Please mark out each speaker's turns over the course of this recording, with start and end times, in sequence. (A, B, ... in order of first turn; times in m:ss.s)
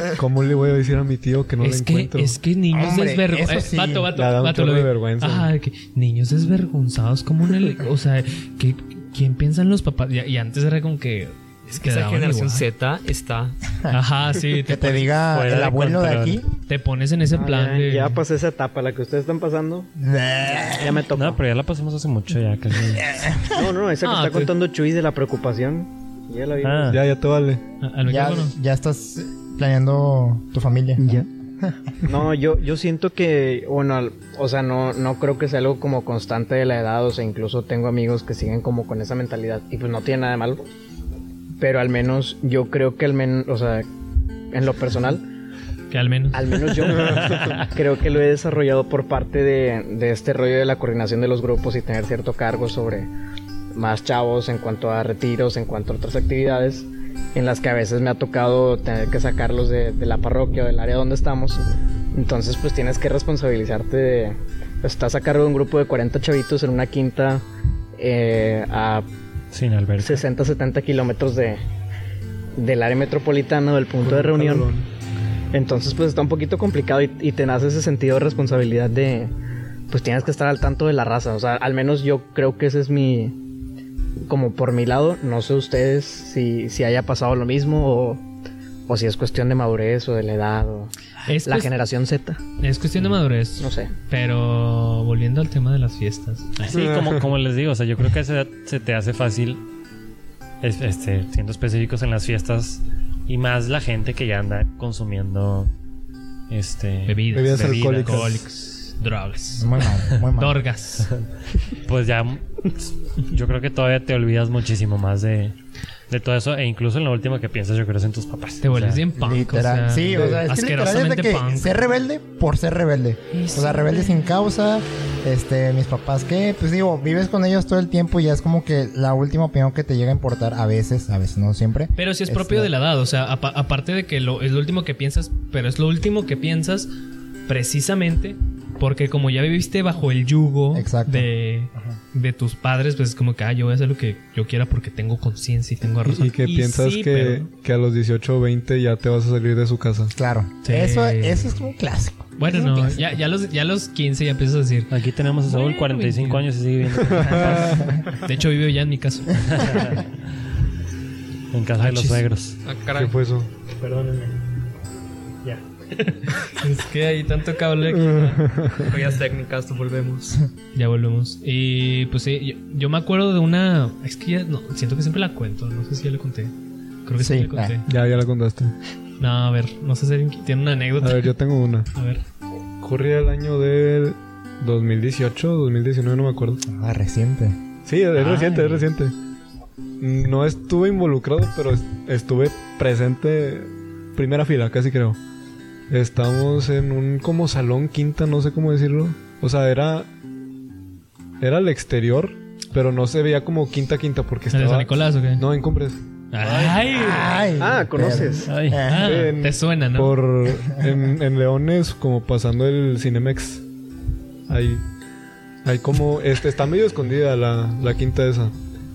0:00.2-0:02.4 A
0:01.6-0:12.6 B
0:02.7-0:04.1 C
0:04.1-0:05.5 A
0:11.8-0:13.6 D
0:13.9-0:15.1 B
0:14.6-0:16.5 C
0:15.3-0:16.4 E
0:16.7-0:18.2 B
0:17.3-0:19.9 F
0:20.0-0:21.0 C
0:20.6-0:21.4 F
0:21.1-0:23.2 E
0:23.0-0:23.7 C
0:23.5-0:27.0 F
0:24.0-0:24.5 B
0:26.6-0:27.0 E
0:26.9-0:27.6 A
0:27.8-0:28.5 B
0:28.0-0:32.0 C
0:31.0-0:31.3 F
0:32.0-0:40.6 F
0:41.6-0:43.9 F
0:44.5-0:45.2 F
0:45.9-0:46.6 B
0:46.3-0:53.1 F
0:47.0-0:47.5 E
0:53.7-1:07.4 F
1:08.0-1:09.0 F
1:09.5-1:10.2 E
1:10.0-1:11.6 F
1:12.6-1:14.7 F
1:14.0-1:14.9 A
1:15.5-1:19.3 F
1:19.9-1:23.4 F
1:24.3-1:28.2 F
1:28.9-1:30.9 F
1:31.3-1:31.7 B
1:31.4-1:32.4 F
1:32.6-1:36.8 B
1:33.6-1:33.9 F
1:36.6-1:39.6 E
1:36.7-1:37.3 A
1:40.6-1:45.7 E
1:46.5-1:48.3 E
1:47.1-1:49.8 B
1:47.3-1:48.4 A
1:49.5-1:50.6 C
1:50.3-1:51.1 B
1:51.0-1:55.6 E
1:56.1-1:59.0 E
1:58.6-2:01.8 B
1:59.1-2:12.7 C
2:00.1-2:00.4 A
2:03.3-2:04.2 B
2:12.0-2:16.9 B
2:17.5-2:27.5 B
2:20.7-2:22.0 C
2:26.0-2:30.1 A
2:30.1-2:33.1 C
2:30.6-2:31.6 B
2:32.4-2:34.9 B
2:34.9-2:38.0 E
2:35.4-2:36.4 B
2:37.2-2:37.7 A
2:37.3-2:39.7 B
2:39.5-2:40.1 E
2:41.5-2:42.6 E
2:41.8-2:42.2 B
2:42.6-2:43.1 D
2:42.9-2:43.5 A
2:45.9-2:48.5 B
2:47.8-2:48.9 A
2:48.8-2:50.4 D
2:50.7-2:56.5 B
2:57.0-2:57.8 B
2:57.2-2:57.8 C
2:57.8-2:58.7 A
2:59.2-3:01.3 B
3:01.0-3:01.9 A
3:01.9-3:02.2 B
3:02.8-3:06.6 A
3:06.7-3:07.6 C
3:07.8-3:09.1 A
3:08.1-3:08.9 B
3:10.0-3:15.2 A
3:15.9-3:20.1 A
3:21.4-3:26.0 A
3:24.5-3:25.4 B
3:26.3-3:27.4 B
3:26.4-3:27.5 E
3:26.9-3:29.2 C
3:27.6-3:28.5 F
3:28.5-3:29.0 E
3:28.9-3:30.2 B
3:28.9-3:33.6 A
3:30.6-3:30.9 C
3:34.5-3:34.8 A
3:35.6-3:38.5 A